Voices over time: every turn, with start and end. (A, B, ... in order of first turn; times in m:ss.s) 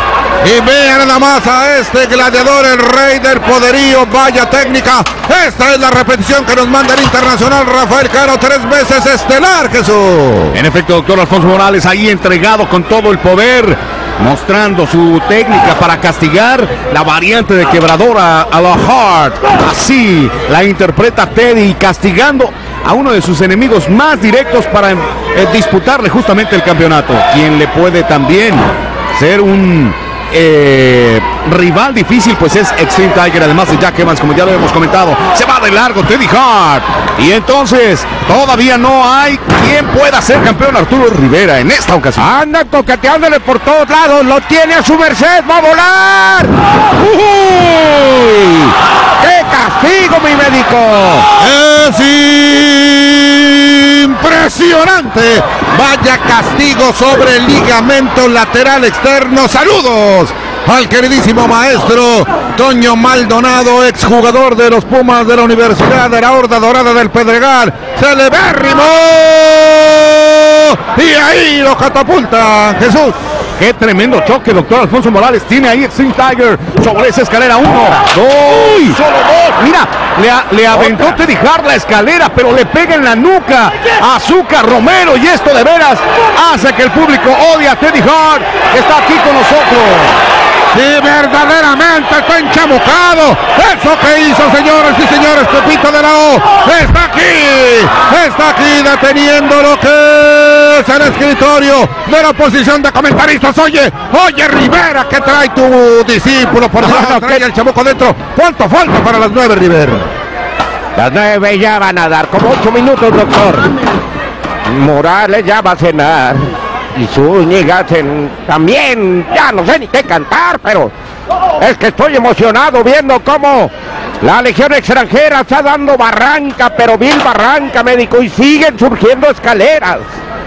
0:00.4-0:10.6 A
0:10.5-0:42.2 B
0:42.2-0:51.3 C
0:51.4-1:13.2 A
1:13.6-1:30.2 B
1:30.7-1:50.1 A
1:46.8-1:47.4 C
1:51.0-1:53.7 C
1:54.6-2:00.9 C
2:01.6-2:10.1 C